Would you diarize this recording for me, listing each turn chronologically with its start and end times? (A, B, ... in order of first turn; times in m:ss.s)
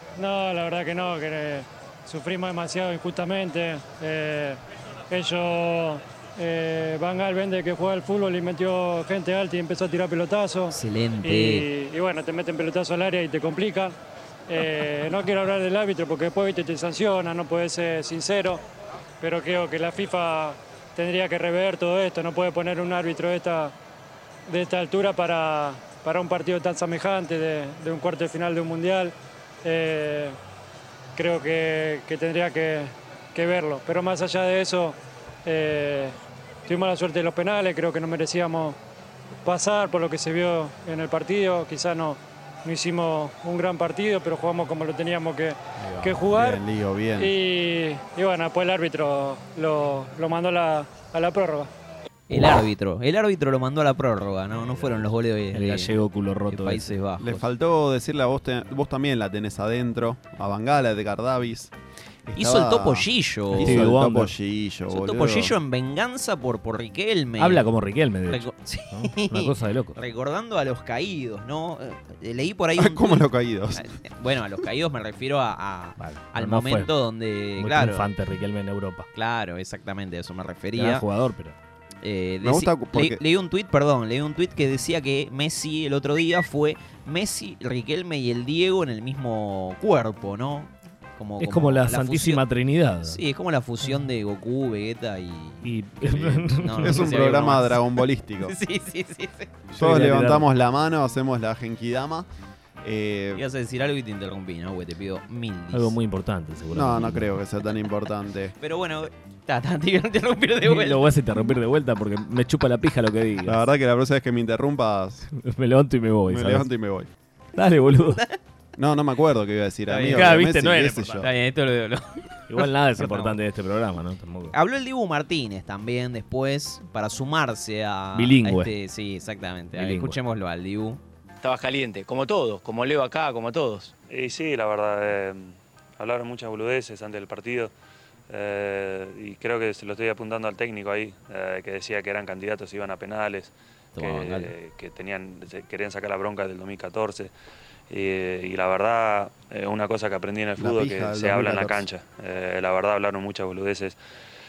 0:00.2-0:04.6 A
0:05.1-0:13.9 A
0:10.7-0:11.6 B
0:14.5-0:18.6 A
0:19.2-0:23.7 A
0:24.5-0:30.4 A
0:31.2-0:36.1 A
0:36.7-0:38.8 A
0:39.4-0:46.6 A
0:45.9-0:46.2 C
0:46.3-0:47.3 D
0:47.2-0:51.7 A
0:52.3-0:57.4 B
0:54.6-0:56.9 C
0:57.2-1:01.7 D
1:02.3-1:05.6 D
1:02.4-1:03.9 B
1:03.6-1:04.3 C
1:04.9-1:07.6 B
1:07.4-1:10.0 C
1:08.3-1:18.1 B
1:12.8-1:13.9 D
1:16.0-1:16.9 C
1:17.6-1:19.1 C
1:19.1-1:21.0 B
1:20.7-1:21.6 C
1:22.0-1:32.4 B
1:22.4-1:23.2 D
1:31.4-1:33.2 C
1:33.0-1:39.6 B
1:35.6-1:37.1 C
1:36.8-1:38.5 D
1:39.7-1:42.3 D
1:39.8-1:40.4 C
1:42.8-1:43.4 D
1:43.3-1:45.9 B
1:45.7-1:47.3 C
1:46.7-1:48.5 D
1:48.6-1:51.0 B
1:50.6-1:53.6 C
1:53.4-1:55.3 D
1:55.4-1:56.7 C
1:56.3-1:57.1 D
1:57.6-1:58.2 C
1:58.8-2:01.3 D
1:59.9-2:00.4 B
2:00.1-2:01.3 C
2:01.2-2:03.4 B
2:02.5-2:04.5 C
2:04.5-2:11.0 B
2:08.1-2:08.7 C
2:09.7-2:10.2 C
2:11.4-2:13.9 E
2:14.1-2:17.7 F
2:18.3-2:27.3 F
2:24.0-2:24.5 B
2:27.9-2:34.0 F
2:30.6-2:31.8 D